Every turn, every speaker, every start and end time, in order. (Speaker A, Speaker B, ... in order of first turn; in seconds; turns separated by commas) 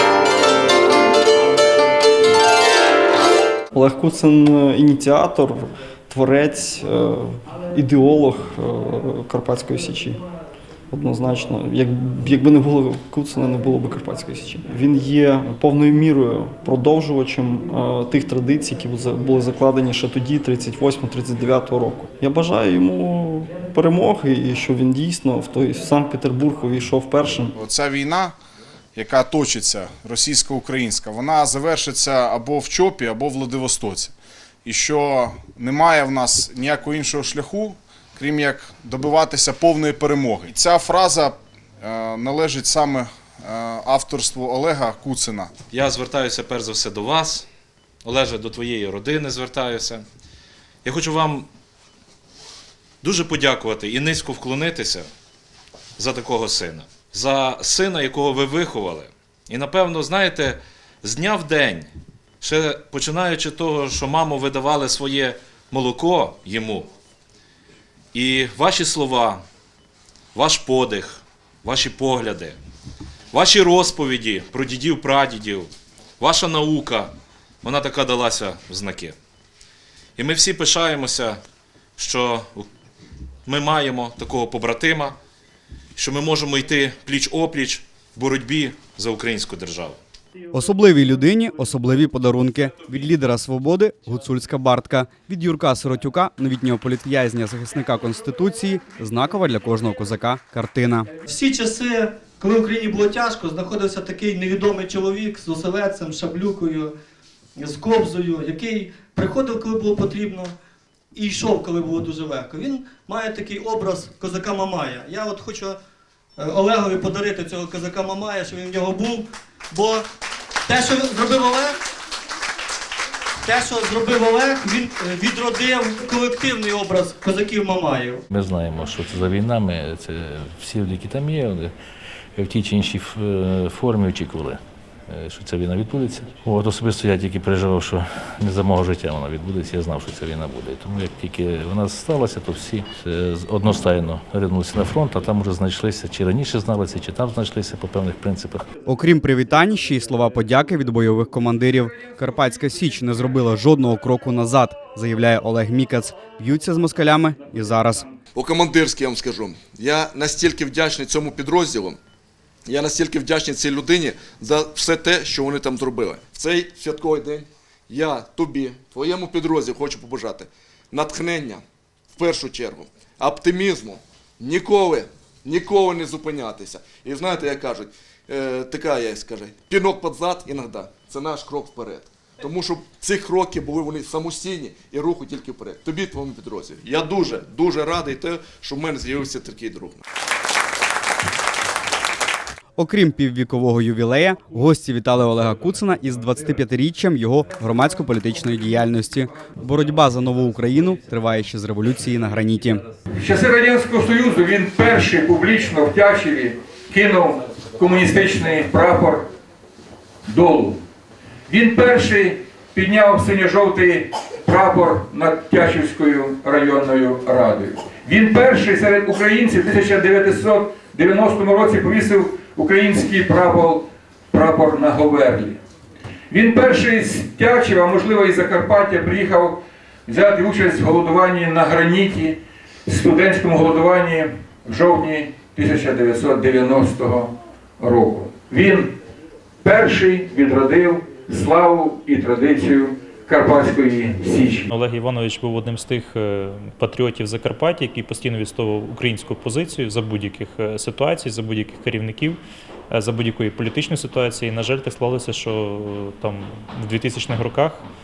Speaker A: 3.7-10.2, Speaker A: 10.9-27.5, Speaker B: 27.6-28.4, Speaker B: 29.0-45.5, Speaker C: 45.7-47.5, Speaker C: 48.0-50.0, Speaker C: 50.8-51.5, Speaker C: 53.0-55.1, Speaker C: 56.0-61.9, Speaker C: 62.4-66.9, Speaker C: 68.1-69.4, Speaker C: 70.3-72.6, Speaker C: 73.3-79.2, Speaker C: 80.2-81.4, Speaker C: 82.0-82.7, Speaker C: 83.5-85.2, Speaker C: 86.0-90.0, Speaker D: 90.5-101.1, Speaker E: 101.3-106.9, Speaker E: 107.6-110.5, Speaker E: 111.2-115.8, Speaker E: 116.4-119.2, Speaker E: 119.8-120.0, Speaker E: 120.7-121.7, Speaker E: 123.5-128.2, Speaker F: 128.3-131.7, Speaker F: 132.4-148.7, Speaker D: 148.9-158.1, Speaker G: 158.3-162.0, Speaker G: 162.7-171.6, Speaker G: 172.2-190.0, Speaker D: 192.8-202.8, Speaker H: 203.2-209.3, Speaker H: 210.3-210.8, Speaker H: 211.5-225.6, Speaker H: 226.3-239.0, Speaker H: 239.6-244.7, Speaker I: 244.7-257.9